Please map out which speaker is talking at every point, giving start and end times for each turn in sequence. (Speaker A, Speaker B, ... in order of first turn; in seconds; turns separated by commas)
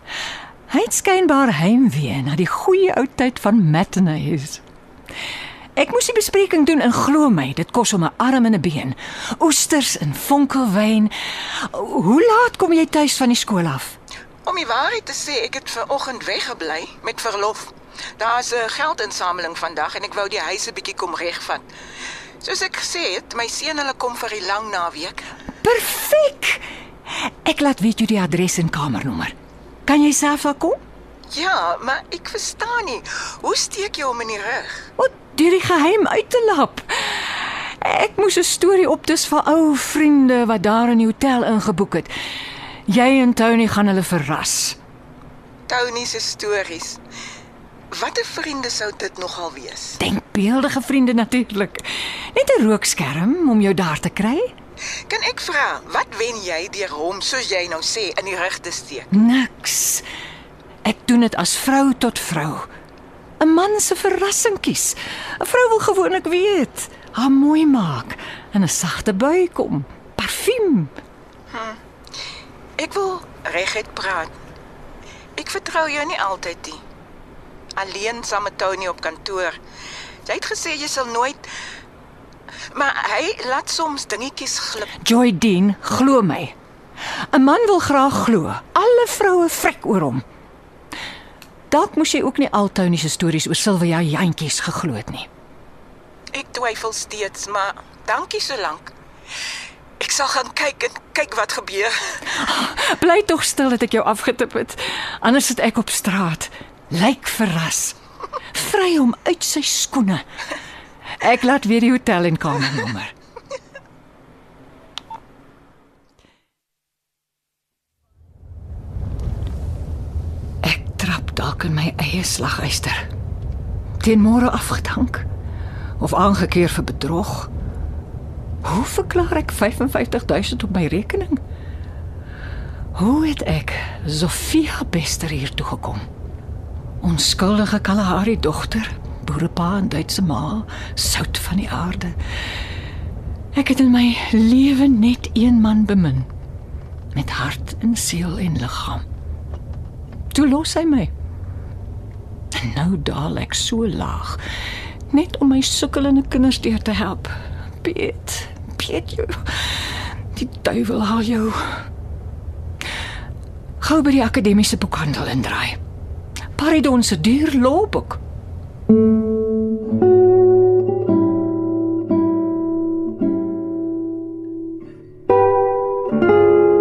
Speaker A: 0.7-4.6, Speaker A: 5.8-14.0, Speaker B: 14.4-21.6, Speaker B: 22.4-25.2, Speaker A: 25.6-26.6, Speaker A: 27.2-29.3, Speaker A: 29.9-30.8, Speaker B: 31.3-34.9, Speaker A: 35.0-42.1, Speaker A: 42.9-44.8, Speaker B: 45.7-47.0, Speaker B: 47.9-50.0, Speaker A: 50.0-54.5, Speaker B: 55.1-59.1, Speaker A: 59.1-60.0, Speaker A: 60.8-62.6, Speaker A: 63.4-70.9, Speaker B: 71.5-71.8, Speaker B: 72.8-74.3, Speaker B: 75.4-76.8, Speaker B: 77.8-79.6, Speaker B: 80.2-81.5, Speaker B: 82.7-84.9, Speaker A: 85.0-86.5, Speaker A: 87.3-90.2, Speaker A: 91.7-95.3, Speaker B: 96.3-98.9, Speaker B: 100.0-102.2, Speaker A: 102.3-108.0, Speaker A: 108.5-110.2, Speaker A: 111.2-113.1, Speaker A: 120.6-123.0, Speaker A: 124.0-125.3, Speaker A: 126.0-127.5, Speaker A: 128.6-131.4, Speaker A: 132.9-136.0, Speaker A: 137.0-142.2, Speaker A: 143.5-146.3, Speaker A: 147.1-149.0, Speaker A: 150.3-151.1, Speaker A: 152.5-154.4, Speaker A: 155.1-161.8, Speaker A: 163.8-165.8, Speaker A: 166.5-168.2